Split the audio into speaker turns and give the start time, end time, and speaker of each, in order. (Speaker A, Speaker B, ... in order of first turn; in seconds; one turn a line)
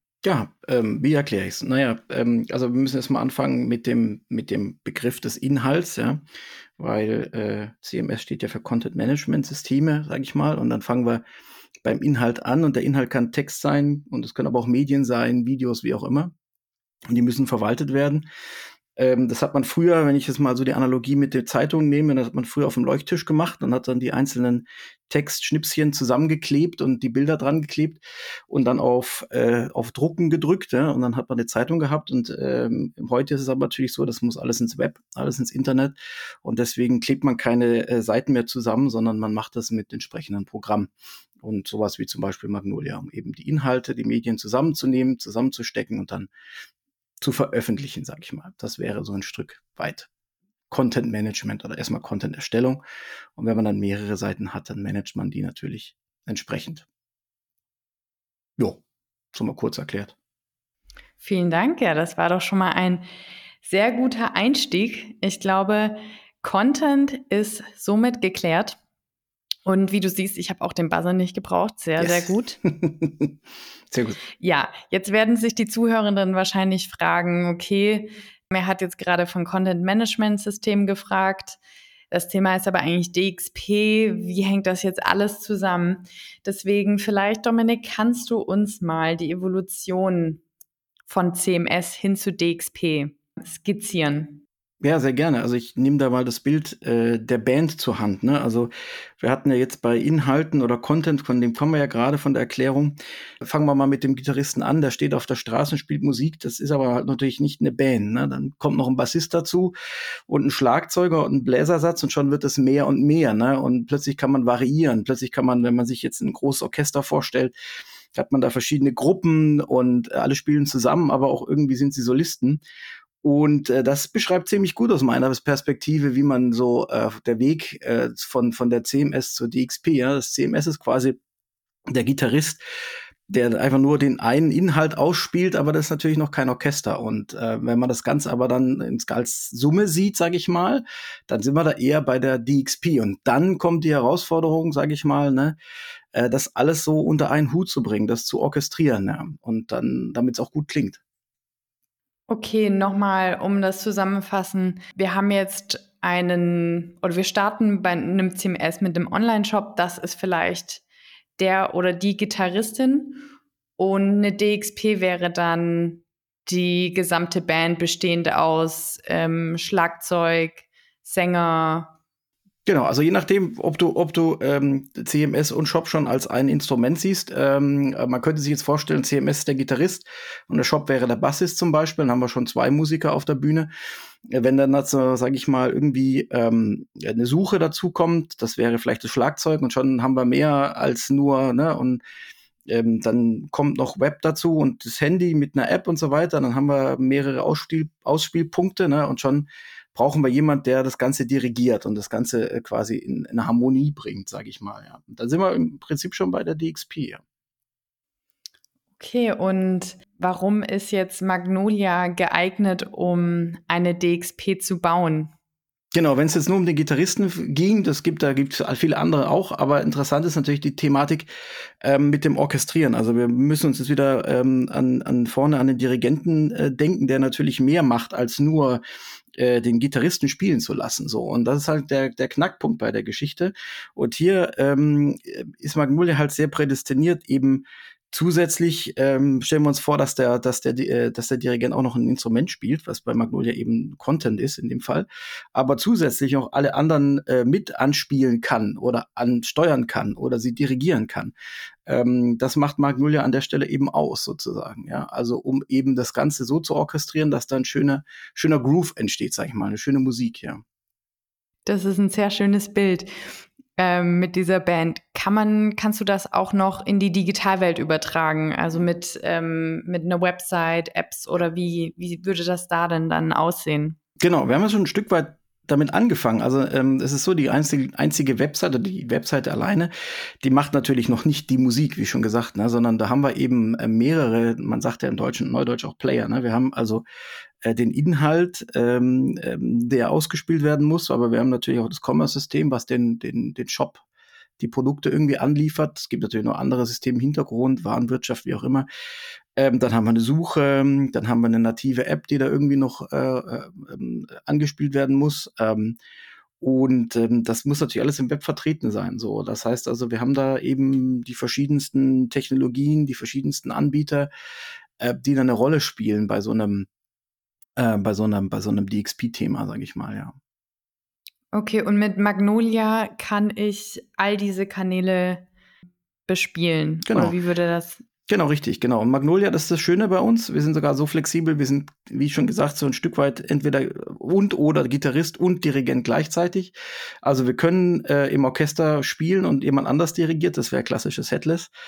Speaker A: 0.2-6.2
Speaker A: 6.8-11.2
Speaker A: 11.8-16.3
Speaker A: 17.1-18.3
Speaker A: 19.0-46.3
Speaker A: 47.2-50.1
Speaker A: 50.7-52.8
Speaker A: 53.4-56.9
Speaker A: 59.3-60.1
Speaker B: 61.2-63.1
Speaker B: 63.6-68.8
Speaker B: 69.7-72.6
Speaker A: 72.0-73.3
Speaker A: 73.9-74.2
Speaker B: 74.4-81.6
Speaker B: 82.1-90.4
Speaker B: 91.1-94.4
Speaker A: 94.8-109.7
Speaker A: 110.3-117.5
Speaker A: 118.1-122.6
Speaker A: 123.2-131.2
Speaker A: 131.9-132.6
Speaker A: 133.3-145.6
Speaker A: 146.1-151.0
Speaker B: 152.3-160.8
Speaker B: 161.4-163.2
Speaker B: 163.8-171.9
Speaker A: 172.7-183.7
Speaker A: 184.3-192.0
Speaker A: 192.7-207.2
Speaker B: 209.0-215.3
Speaker A: 215.9-221.3
Speaker A: 221.8-228.8
Speaker A: 229.4-251.3
Speaker A: 251.9-260.6
Speaker B: 261.7-263.1
Speaker B: 263.8-274.0
Speaker A: 274.2-287.0
Speaker A: 287.6-294.0
Speaker A: 294.6-298.9
Speaker A: 299.6-306.0
Speaker A: 306.6-314.3
Speaker A: 315.0-316.9
Speaker A: 317.8-320.4
Speaker B: 321.5-325.5
Speaker B: 326.3-328.0
Speaker A: 327.1-327.4
Speaker A: 328.3-341.7